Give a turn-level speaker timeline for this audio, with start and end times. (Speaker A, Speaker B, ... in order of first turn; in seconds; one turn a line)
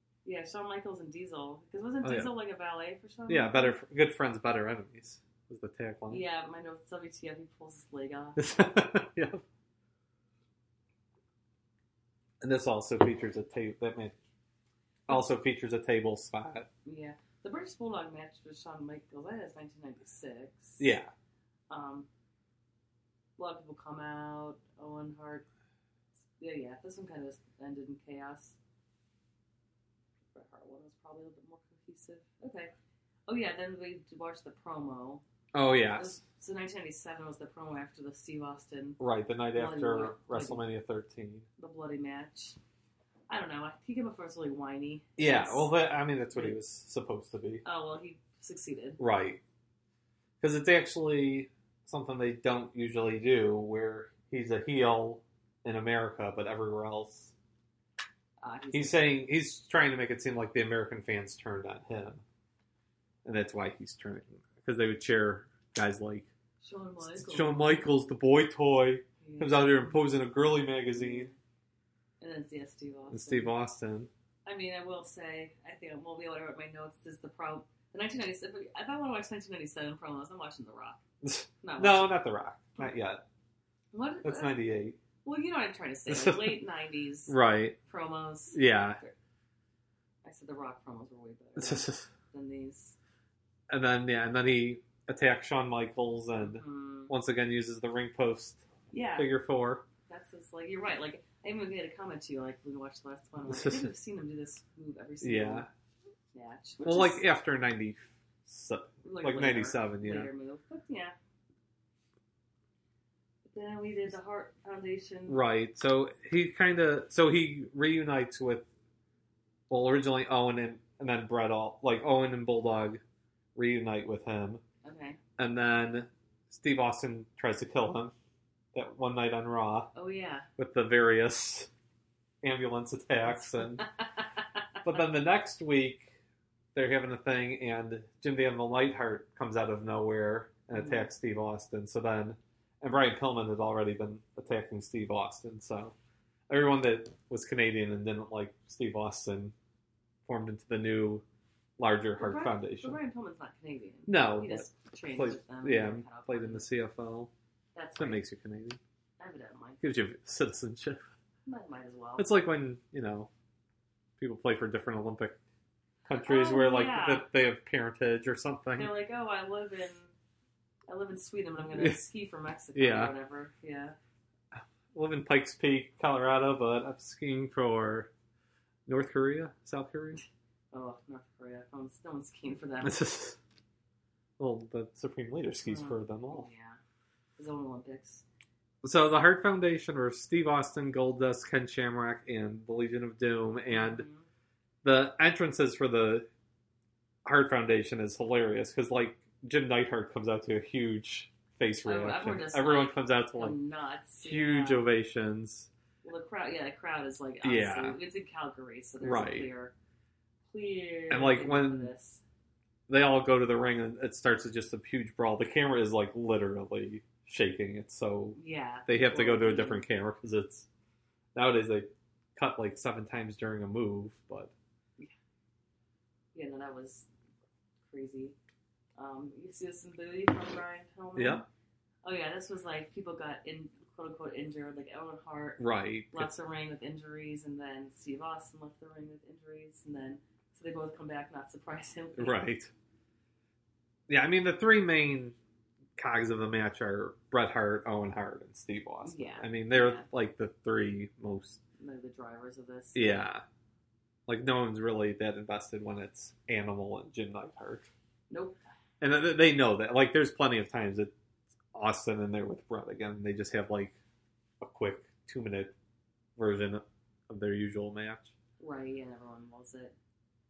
Speaker A: 0.2-3.8
Speaker B: 2.0-2.3
Speaker B: 3.3-6.2
Speaker A: 6.1-8.7
Speaker B: 8.4-9.4
Speaker B: 12.4-14.2
Speaker B: 15.1-16.7
Speaker A: 16.9-20.9
Speaker B: 20.8-21.1
Speaker A: 21.7-22.1
Speaker A: 23.4-25.5
Speaker A: 26.4-28.6
Speaker A: 30.3-32.7
Speaker A: 33.3-35.2
Speaker B: 35.5-36.2
Speaker A: 35.9-39.0
Speaker B: 39.0-41.5
Speaker A: 39.5-40.6
Speaker A: 41.6-42.6
Speaker A: 43.3-45.7
Speaker B: 45.2-47.6
Speaker A: 47.6-49.0
Speaker B: 49.0-49.4
Speaker B: 50.4-57.3
Speaker A: 58.4-59.1
Speaker B: 58.7-62.2
Speaker B: 63.2-66.3
Speaker A: 66.6-67.8
Speaker B: 67.0-71.3
Speaker A: 69.2-70.0
Speaker A: 70.9-71.4
Speaker A: 72.2-73.5
Speaker B: 73.1-74.1
Speaker A: 74.5-81.0
Speaker B: 81.2-83.2
Speaker A: 81.6-82.2
Speaker A: 83.9-84.6
Speaker B: 84.2-85.0
Speaker A: 85.2-89.1
Speaker B: 86.1-86.6
Speaker B: 87.3-87.8
Speaker B: 88.5-89.0
Speaker A: 90.2-93.0
Speaker B: 91.6-92.1
Speaker B: 93.7-98.7
Speaker A: 96.4-97.1
Speaker A: 98.9-99.3
Speaker B: 99.2-99.8
Speaker A: 100.1-105.7
Speaker B: 103.5-103.9
Speaker B: 105.2-105.7
Speaker A: 106.3-107.2
Speaker B: 106.8-110.3
Speaker A: 109.0-111.2
Speaker A: 113.5-115.4
Speaker B: 115.3-118.7
Speaker B: 119.7-123.0
Speaker B: 123.5-124.6
Speaker A: 124.8-125.2
Speaker B: 125.4-128.1
Speaker B: 128.7-129.9
Speaker A: 129.9-130.5
Speaker B: 130.6-131.7
Speaker B: 132.4-133.8
Speaker A: 133.3-134.2
Speaker B: 134.8-136.1
Speaker B: 136.8-145.9
Speaker A: 140.7-141.1
Speaker B: 146.5-149.5
Speaker B: 150.3-151.2
Speaker B: 151.8-153.0
Speaker A: 152.2-156.7
Speaker B: 154.1-157.3
Speaker A: 157.8-158.2
Speaker B: 158.0-158.8
Speaker A: 159.2-159.8
Speaker B: 159.8-161.0
Speaker A: 161.4-162.3
Speaker B: 162.2-163.3
Speaker B: 164.2-165.4
Speaker B: 166.1-168.9
Speaker A: 166.2-167.3
Speaker A: 168.8-170.1
Speaker A: 170.9-174.0
Speaker B: 171.7-172.0
Speaker B: 172.8-173.1
Speaker B: 174.5-178.1
Speaker B: 178.9-180.2
Speaker A: 180.7-183.1
Speaker B: 182.8-183.4
Speaker B: 184.4-186.5
Speaker A: 185.7-186.8
Speaker A: 187.4-188.2
Speaker B: 188.8-194.1
Speaker A: 193.7-194.3
Speaker B: 194.8-196.3
Speaker B: 197.2-203.6
Speaker A: 201.8-204.9
Speaker B: 204.2-205.7
Speaker A: 206.0-209.7
Speaker B: 207.4-208.0
Speaker B: 209.0-209.5
Speaker A: 210.5-212.2
Speaker B: 211.1-211.9
Speaker B: 212.9-220.7
Speaker A: 218.4-219.8
Speaker B: 221.3-224.5
Speaker A: 226.3-227.1
Speaker A: 227.9-228.4
Speaker A: 229.0-231.4
Speaker B: 231.2-231.5
Speaker A: 232.0-242.4
Speaker B: 235.6-236.3
Speaker B: 242.2-242.7
Speaker B: 244.1-245.4
Speaker B: 246.0-251.6
Speaker A: 249.0-250.1
Speaker A: 251.8-253.2
Speaker B: 252.9-253.4
Speaker B: 254.3-257.9
Speaker A: 258.3-258.6
Speaker B: 259.0-261.1
Speaker B: 261.7-264.0
Speaker B: 264.6-265.7
Speaker B: 266.4-268.3
Speaker A: 268.6-269.9